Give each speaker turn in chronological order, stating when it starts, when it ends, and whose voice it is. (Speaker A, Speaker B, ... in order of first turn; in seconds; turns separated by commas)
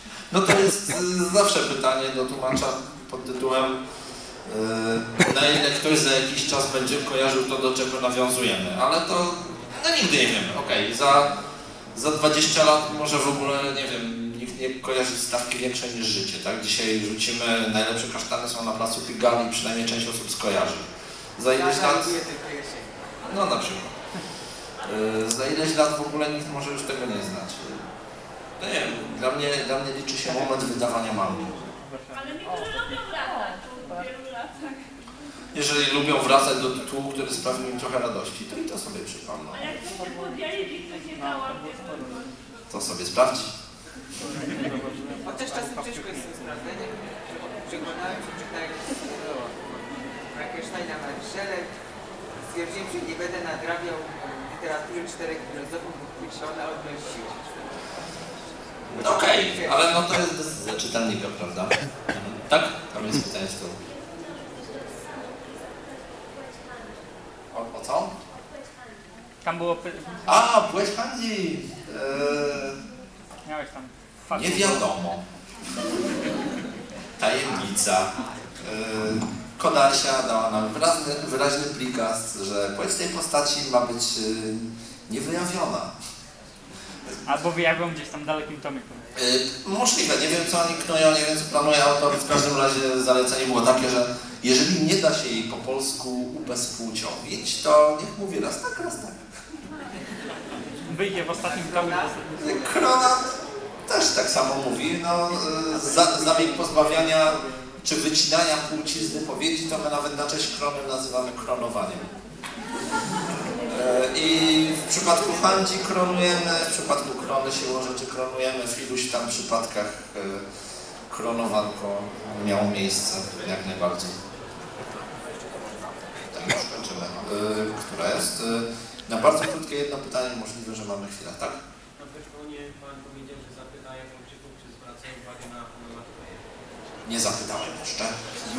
Speaker A: 0.3-3.8, Speaker A: 4.5-11.3, Speaker A: 11.9-22.2, Speaker B: 21.5-23.1, Speaker A: 23.2-23.9, Speaker A: 24.8-27.9, Speaker A: 28.6-31.8, Speaker C: 30.2-30.6, Speaker C: 31.8-34.1, Speaker D: 32.1-35.3, Speaker A: 35.5-39.8, Speaker D: 39.5-42.6, Speaker C: 39.9-42.3, Speaker A: 42.7-43.5, Speaker C: 44.2-46.5, Speaker B: 45.2-49.3, Speaker C: 49.1-49.8, Speaker B: 50.3-51.7, Speaker B: 52.4-57.9, Speaker B: 58.9-59.9, Speaker A: 58.9-63.8, Speaker A: 67.5-68.2, Speaker C: 69.4-70.5, Speaker A: 70.3-72.8, Speaker C: 73.5-74.9, Speaker A: 74.3-75.2, Speaker A: 77.2-85.9, Speaker B: 78.1-78.5, Speaker C: 87.2-89.0, Speaker A: 89.2-99.2, Speaker C: 100.9-102.4, Speaker B: 101.3-102.9, Speaker A: 102.4-103.3, Speaker A: 103.9-112.1, Speaker C: 106.1-107.7, Speaker A: 113.7-120.4, Speaker A: 121.1-124.2, Speaker A: 126.2-131.6, Speaker E: 132.0-137.1, Speaker A: 137.1-138.3